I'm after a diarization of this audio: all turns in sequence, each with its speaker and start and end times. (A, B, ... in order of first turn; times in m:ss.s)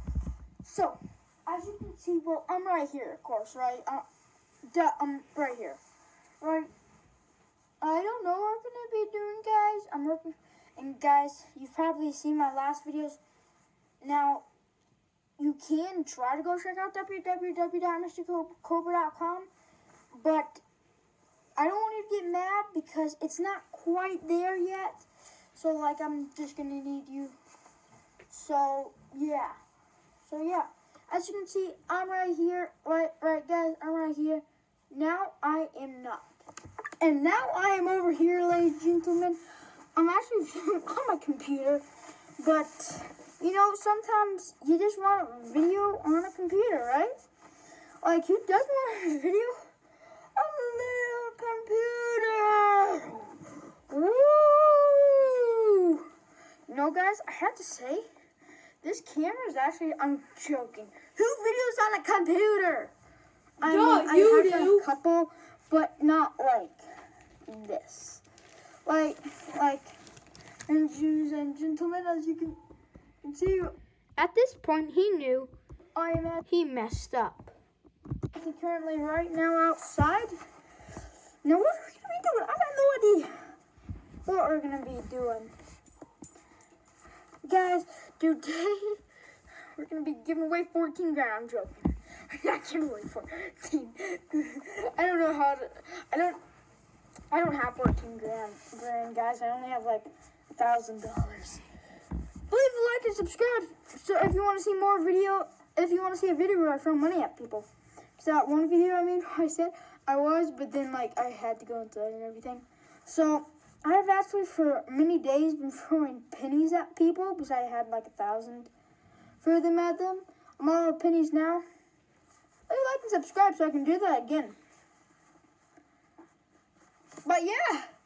0:00.6-0:04.0 A
0:04.7-0:05.8 A
0:06.4-0:06.7 A
0:07.8-0:13.2 A
0:14.0-0:14.4 A
0:15.4-0:19.5 A
0:20.2-0:20.6 A
0:21.6-0:27.4 A
0:28.3-0:29.6 A
0:30.2-0:36.3 A
0:37.0-0:39.4 A
0:40.0-0:41.8 A
0:42.4-0:47.2 A
0:48.0-0:49.6 A
0:50.4-0:53.4 A
0:53.9-0:56.0 A
0:56.7-0:58.0 A
0:58.8-1:02.9 A
1:03.6-1:06.8 A
1:03.6-1:04.8 B
1:07.5-1:08.2 A
1:08.9-1:09.9 A
1:10.7-1:12.6 A
1:13.2-1:13.8 A
1:14.2-1:15.5 B
1:16.0-1:16.5 A
1:16.5-1:17.5 B
1:18.3-1:20.4 A
1:21.4-1:23.5 A
1:24.2-1:25.5 A
1:27.4-1:29.0 A
1:29.8-1:36.4 A
1:37.3-1:41.6 A
1:42.5-1:58.7 A
1:59.4-2:01.6 A
2:02.7-2:04.6 A
2:07.2-2:07.9 A